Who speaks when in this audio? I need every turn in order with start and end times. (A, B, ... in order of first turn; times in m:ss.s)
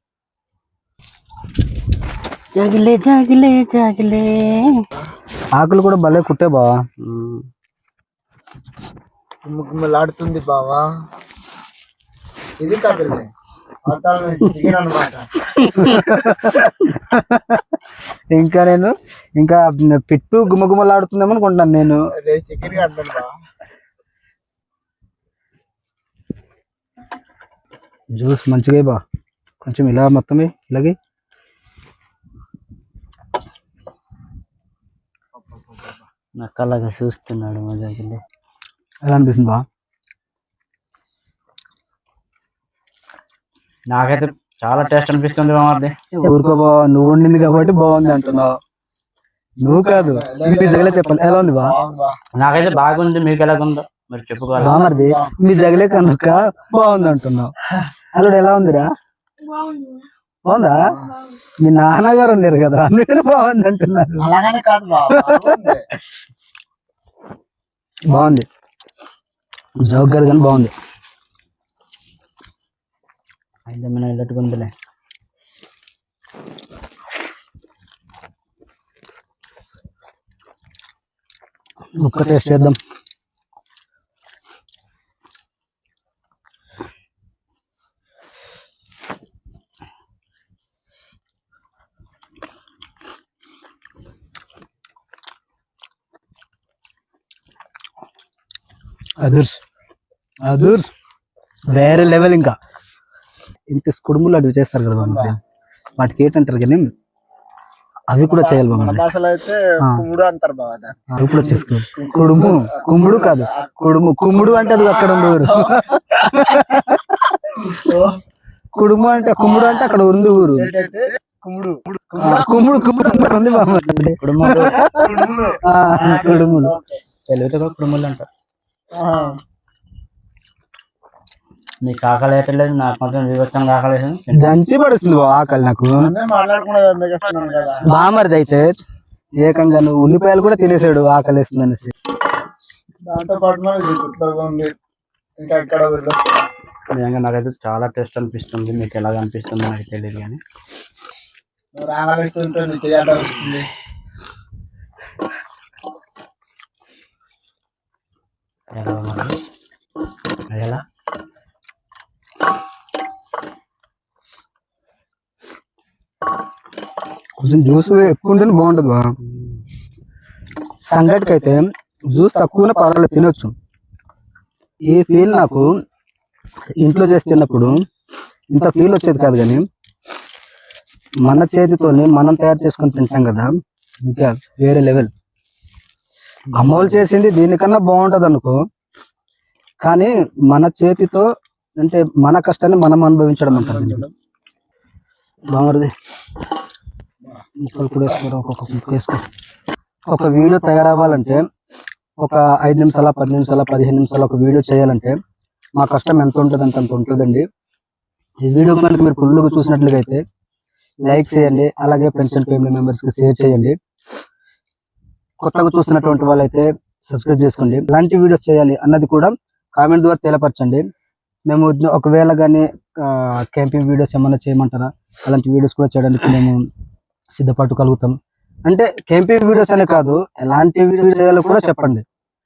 0:02.5-0:04.8 A
0:05.6-0:06.7 B
0:07.0-0:07.4 A
0:09.4-0:10.9 C
0:12.6-0:13.3 C
0:13.8-0:15.3 C
0:15.8-0:17.8 B
0:18.3-0:22.0 B
0:22.2-0:23.3 C
0:28.2-0:29.0 B
0:29.6-0:31.0 B
0:36.4-0:38.2 A
0:39.0-0:39.6 B
0:43.9-0:46.0 A
0:46.2-0:48.5 B
0:49.6-0:51.7 B
0:50.0-0:52.2 C
0:52.4-0:54.8 A
0:54.6-0:57.5 B
0:54.7-0:55.3 C
0:58.2-0:58.9 B
1:00.5-1:00.8 B
1:01.6-1:04.3 B
1:04.2-1:05.9 C
1:05.1-1:05.6 B
1:08.1-1:08.5 B
1:09.8-1:10.7 B
1:13.7-1:14.7 A
1:22.0-1:22.8 B
1:39.2-1:39.6 B
1:40.4-1:40.9 B
1:41.7-1:42.6 B
1:43.7-1:45.4 B
1:45.0-1:45.3 C
1:46.0-1:46.9 B
1:48.1-1:49.0 B
1:48.2-1:51.0 C
1:51.1-1:57.2 B
1:52.0-1:53.7 C
1:54.3-1:55.7 C
1:57.8-1:58.1 C
1:58.8-2:00.7 B
2:00.6-2:02.4 C
2:02.2-2:06.7 B
2:02.9-2:03.4 C
2:04.2-2:04.8 A
2:05.1-2:06.9 C
2:07.3-2:08.3 A
2:08.9-2:09.4 C
2:11.8-2:14.5 A
2:14.3-2:16.1 B
2:16.0-2:17.9 C
2:17.8-2:18.7 B
2:19.4-2:21.9 B
2:23.1-2:24.7 C
2:25.4-2:26.2 C
2:26.9-2:30.4 A
2:31.8-2:33.7 C
2:38.7-2:39.4 A
2:40.5-2:40.8 A
2:47.4-2:49.1 B
2:50.9-2:53.5 B
2:54.9-2:55.7 B
2:56.8-2:57.8 B
2:58.6-2:59.6 B
3:01.2-3:03.5 B
3:04.1-3:05.1 B
3:06.6-3:08.6 B
3:06.6-3:06.9 A
3:09.8-3:11.3 B
3:11.8-3:14.0 B
3:13.5-3:14.1 C
3:15.5-3:15.9 B
3:17.6-3:19.2 B
3:20.1-3:21.4 B
3:22.2-3:25.2 B
3:25.8-3:27.4 B
3:28.4-3:30.2 B
3:31.1-3:33.8 B
3:35.4-3:40.8 B
3:41.5-3:46.6 B
3:47.4-3:48.2 B
3:48.7-3:52.0 B